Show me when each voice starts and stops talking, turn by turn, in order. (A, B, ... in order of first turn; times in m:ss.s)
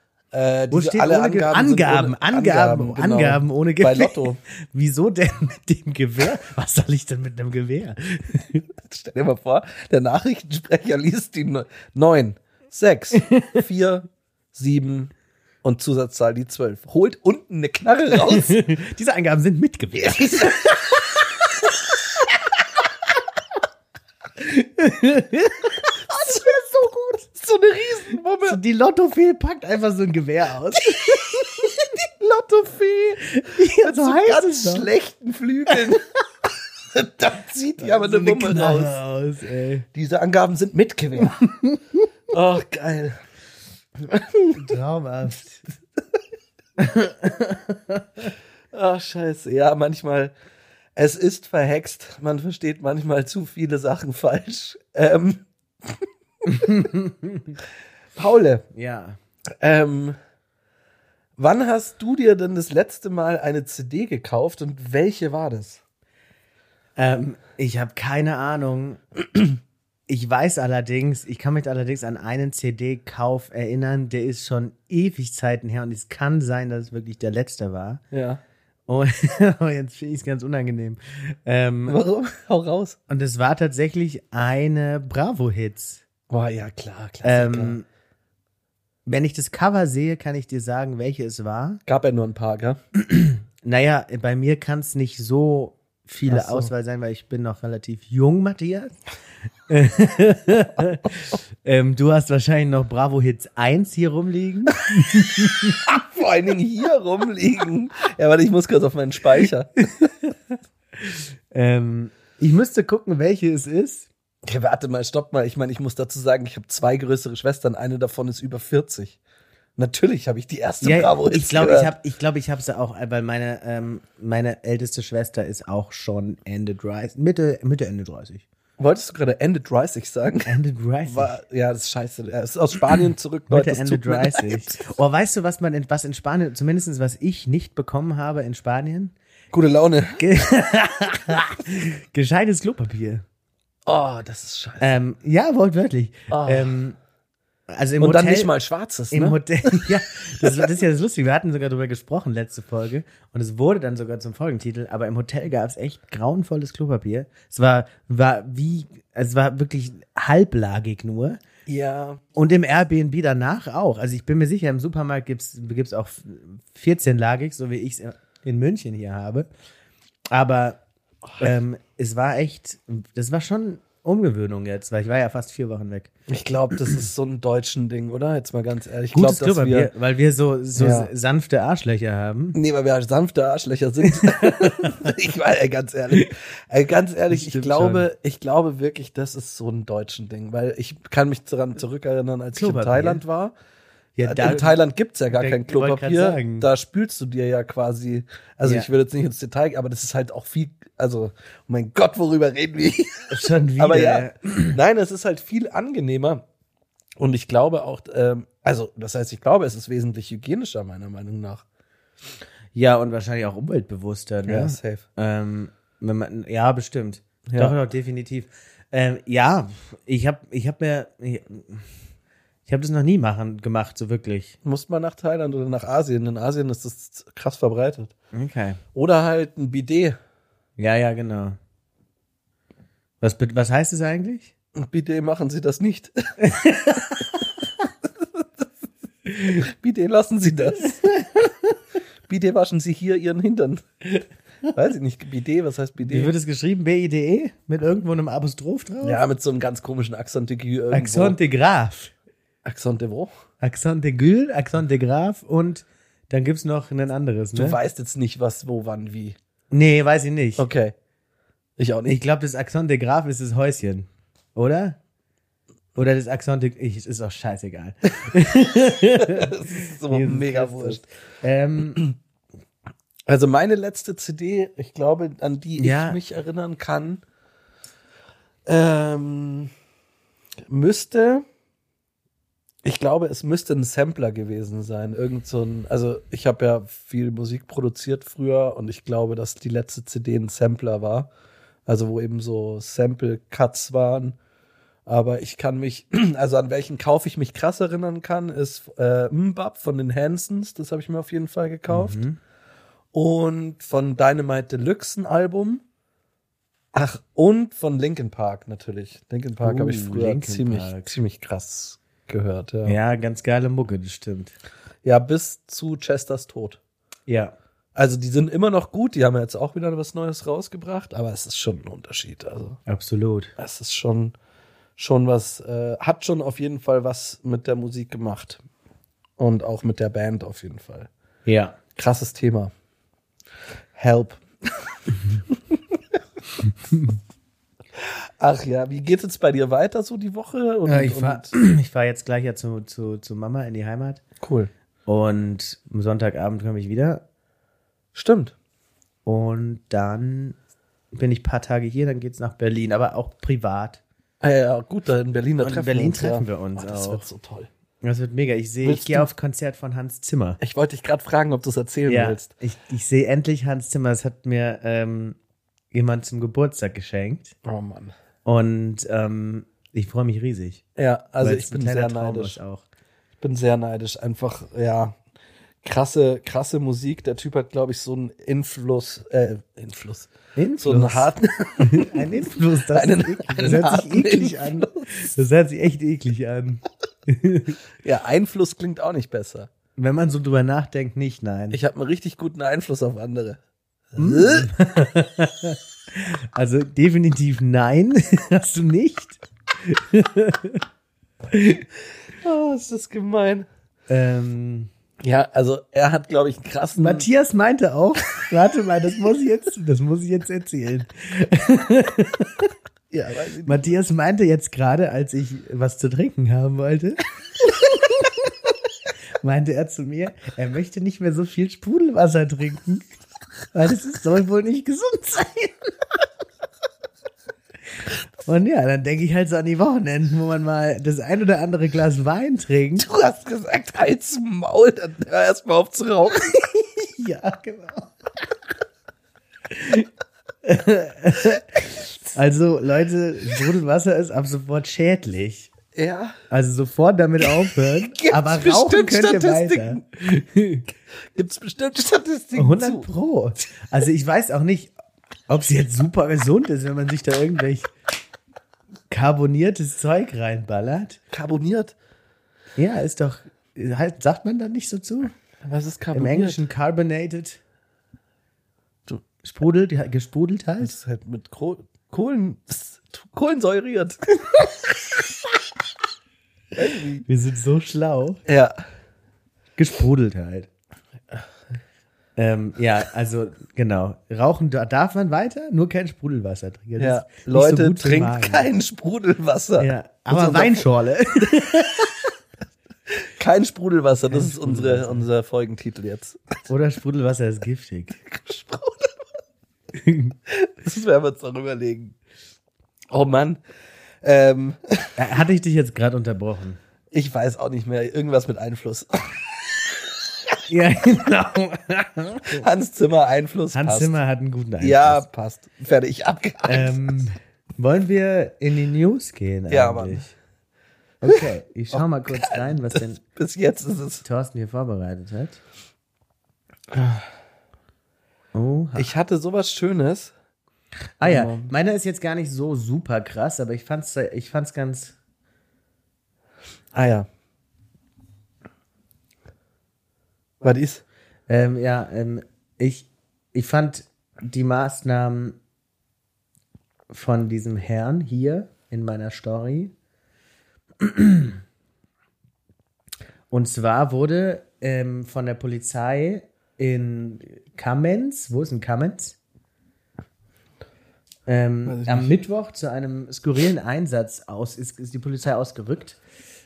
0:00.3-0:04.4 A
0:00.7-0:08.7 B
0:08.8-0:18.6 A
0:13.3-0:13.6 B
0:18.2-0:21.6 B
0:20.0-0:20.9 A
0:24.4-0:27.3 B
0:27.4-0:28.6 A
0:28.4-0:31.9 B
0:31.0-0:31.2 A
0:32.0-0:36.0 A
0:33.3-0:34.9 B
0:36.9-0:39.0 A
0:37.8-0:39.8 B
0:39.9-0:41.5 A
0:41.4-0:42.0 B
0:42.3-0:43.2 A
0:44.0-0:44.8 A
0:44.6-0:45.6 B
0:46.8-0:48.3 B
0:48.7-0:50.3 A
0:51.0-0:56.7 A
0:56.5-0:57.6 B
0:58.2-0:58.6 A
0:58.7-0:59.2 B
0:59.6-1:00.2 A
1:01.4-1:05.8 A
1:07.0-1:09.0 B
1:10.1-1:18.0 B
1:18.1-1:18.4 A
1:18.9-1:22.0 B
1:21.9-1:23.0 A
1:23.1-1:26.0 B
1:26.3-1:27.8 A
1:27.2-1:27.9 B
1:29.1-1:31.8 B
1:31.9-1:32.8 A
1:33.0-1:39.0 B
1:36.3-1:36.7 A
1:39.7-1:45.8 B
1:45.8-1:49.7 A
1:49.9-1:50.4 B
1:51.0-1:54.1 B
1:54.4-1:59.2 A
1:59.8-2:01.9 A
2:00.8-2:08.4 B
2:08.8-2:10.5 A
2:10.5-2:11.4 B
2:11.1-2:14.7 A
2:13.5-2:19.1 B
2:19.5-2:20.2 A
2:20.2-2:23.2 B
2:23.9-2:25.0 A
2:24.8-2:27.0 B
2:26.3-2:26.8 A
2:27.7-2:28.5 B
2:28.0-2:29.9 A
2:29.1-2:41.4 B
2:30.4-2:30.7 A
2:41.7-2:42.2 A
2:42.4-2:49.5 B
2:50.3-2:50.8 B
2:51.4-2:56.1 B
2:56.3-2:59.9 A
2:59.1-3:02.6 B
3:00.8-3:01.1 A
3:02.5-3:13.5 A
3:04.2-3:04.8 B
3:07.3-3:08.1 B
3:12.6-3:13.2 B
3:14.2-3:14.8 B
3:14.2-3:26.4 A
3:15.3-3:16.7 B
3:18.6-3:18.9 B
3:23.3-3:24.8 B
3:27.2-3:31.6 A
3:32.7-3:41.9 B
3:34.5-3:35.0 A
3:37.5-3:37.8 A
3:42.7-3:44.6 B
3:44.6-3:48.1 A
3:48.3-3:48.8 B
3:49.0-3:50.2 A
3:50.8-3:51.6 B
3:53.2-3:54.5 B
3:54.8-3:56.2 A
3:56.4-3:57.4 B
3:59.4-4:01.0 A
4:01.2-4:01.5 B
4:02.3-4:03.8 A
4:04.7-4:06.3 A
4:06.1-4:09.2 B
4:09.0-4:11.4 A
4:10.9-4:12.1 B
4:12.6-4:13.3 A
4:13.6-4:17.8 B
4:17.6-4:19.4 A
4:19.7-4:20.7 B
4:20.6-4:21.0 A
4:21.8-4:22.2 A
4:22.1-4:25.0 B
4:26.0-4:32.0 B
4:29.2-4:31.0 A
4:33.3-4:37.2 A
4:35.8-4:36.2 B
4:38.7-4:39.7 A
4:40.7-4:41.4 A
4:42.8-4:51.3 A
4:51.9-4:54.4 A
4:55.1-5:02.2 A
5:01.9-5:02.4 B
5:03.1-5:05.8 A
5:06.9-5:13.0 A
5:09.6-5:11.1 B
5:12.9-5:14.5 B
5:15.0-5:16.8 A
5:17.3-5:17.5 B
5:18.0-5:22.8 A
5:22.9-5:23.5 B
5:23.6-5:24.3 A
5:25.0-5:28.6 A
5:29.4-5:31.1 A
5:31.5-5:31.8 B
5:32.0-5:32.7 A
5:34.0-5:36.2 A
5:38.0-5:41.5 A
5:40.9-5:44.2 B
5:44.4-5:44.7 A
5:45.1-5:47.2 B
5:48.1-5:48.6 A
5:49.3-5:50.6 B
5:51.1-5:54.0 B
5:54.4-5:57.7 A
5:55.6-5:57.2 B
5:58.0-6:00.6 B
5:58.8-5:59.3 A
6:00.6-6:02.5 A
6:02.1-6:05.4 B
6:05.9-6:07.6 B
6:07.6-6:08.2 A
6:08.4-6:10.8 B
6:11.0-6:12.6 A
6:11.4-6:12.8 B
6:13.4-6:15.2 A
6:15.8-6:25.1 A
6:20.6-6:27.8 B
6:28.0-6:29.7 A
6:30.0-6:31.8 B
6:31.7-6:33.6 A
6:34.1-6:34.7 A
6:34.2-6:40.8 B
6:41.5-6:41.8 B
6:42.4-6:43.7 A
6:44.1-6:44.9 B
6:45.2-6:47.3 A
6:47.0-6:52.7 B
6:53.1-6:53.9 A
6:53.6-6:58.5 B
6:59.4-7:03.1 B
7:03.7-7:05.9 B
7:08.4-7:13.1 B
7:13.0-7:16.6 A
7:16.8-7:18.1 B
7:19.7-7:20.1 B
7:20.6-7:21.7 B
7:22.3-7:25.7 B
7:26.0-7:26.4 A
7:26.5-7:30.8 B
7:28.2-7:30.1 A
7:31.3-7:33.1 A
7:32.6-7:34.9 B
7:35.5-7:37.9 B
7:39.1-7:41.2 B
7:41.3-7:42.0 A
7:42.8-7:45.3 B
7:45.6-7:46.6 A
7:46.1-7:47.6 B
7:49.4-7:51.0 B
7:50.8-7:54.4 A
7:56.8-7:57.2 A
7:57.3-7:58.4 B
7:58.5-7:58.8 A
7:59.8-8:00.7 B
8:02.4-8:08.7 B
8:07.0-8:10.9 A
8:09.8-8:12.3 B
8:13.2-8:16.4 A
8:14.3-8:15.3 B
8:16.7-8:18.2 B
8:18.3-8:19.3 A
8:20.0-8:20.4 B
8:20.5-8:22.2 A
8:23.1-8:23.6 A
8:24.2-8:25.1 A
8:25.2-8:26.8 B
8:27.1-8:30.2 A
8:30.7-8:32.7 B
8:32.5-8:34.1 A
8:33.7-8:35.2 B
8:34.8-8:37.2 A
8:36.6-8:40.3 B
8:39.7-8:40.3 A
8:41.2-8:43.2 B
8:41.3-8:44.2 A
8:44.2-8:45.6 B
8:46.9-8:47.3 A
8:48.5-8:49.1 B
8:49.0-8:50.3 A
8:51.2-8:55.2 B
8:51.2-8:51.7 A
8:56.9-8:57.3 A
9:00.6-9:01.0 A
9:01.5-9:05.6 B
9:07.1-9:09.9 B
9:11.0-9:11.6 B
9:13.5-9:19.4 B
9:21.5-9:26.2 B
9:21.8-9:22.3 A